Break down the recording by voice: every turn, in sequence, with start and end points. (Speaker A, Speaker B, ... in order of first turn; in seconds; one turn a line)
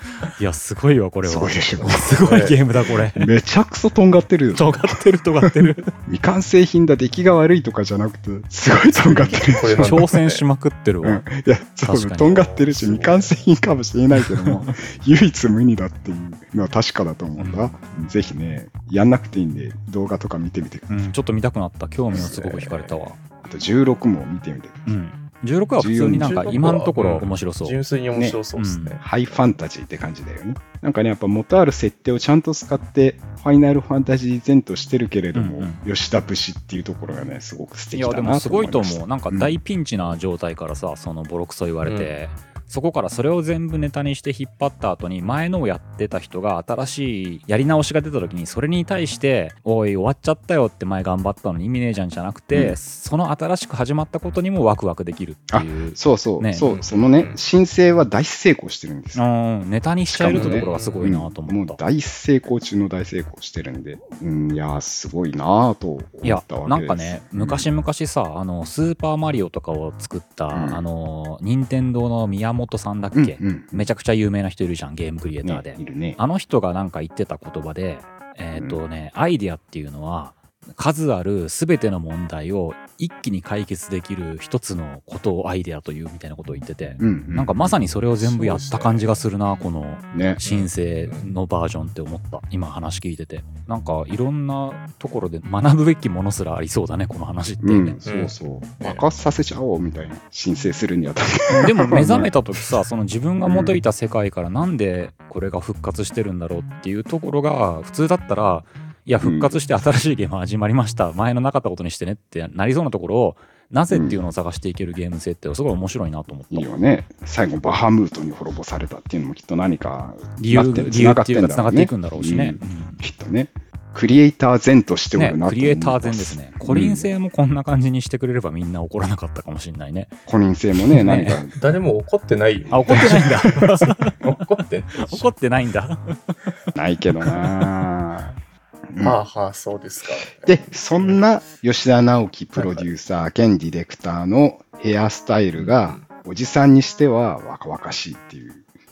Speaker A: 0.3-3.3
Speaker B: 1.2-2.2
Speaker C: 1.8-2.6
Speaker B: 3.1-10.1
Speaker A: 4.5-5.9
Speaker C: 8.9-10.4
Speaker A: 9.8-11.2
Speaker B: 11.0-20.9
Speaker A: 11.9-12.6
Speaker C: 12.2-13.5
Speaker A: 14.2-14.7
Speaker A: 17.4-17.8
Speaker A: 20.9-23.2
Speaker C: 22.1-23.1
Speaker B: 23.4-24.9
Speaker A: 24.9-27.8
Speaker B: 25.8-26.4
Speaker C: 26.1-29.4
Speaker B: 28.1-28.4
Speaker A: 28.6-29.0
Speaker B: 29.0-39.6
Speaker A: 35.3-35.8
Speaker A: 37.9-56.7
Speaker C: 41.9-42.1
Speaker B: 52.5-52.8
Speaker B: 55.5-59.2
Speaker C: 56.6-57.4
Speaker A: 59.1-61.8
Speaker B: 60.1-67.7
Speaker C: 60.3-61.1
Speaker A: 66.2-98.0
Speaker B: 70.5-70.8
Speaker B: 73.1-73.9
Speaker B: 75.4-76.2
Speaker B: 87.0-87.8
Speaker C: 88.2-89.1
Speaker B: 90.1-90.4
Speaker C: 90.4-91.3
Speaker B: 97.6-102.3
Speaker C: 98.0-99.1
Speaker A: 101.5-116.7
Speaker B: 103.4-103.8
Speaker B: 109.2-109.6
Speaker B: 113.9-114.2
Speaker B: 116.5-127.1
Speaker A: 120.4-123.0
Speaker A: 125.1-130.2
Speaker B: 130.3-131.6
Speaker A: 130.8-131.4
Speaker C: 131.5-135.3
Speaker A: 132.7-136.3
Speaker B: 136.8-138.4
Speaker B: 138.9-139.2
Speaker C: 139.0-141.2
Speaker B: 140.4-148.6
Speaker C: 142.6-142.9
Speaker C: 145.6-146.1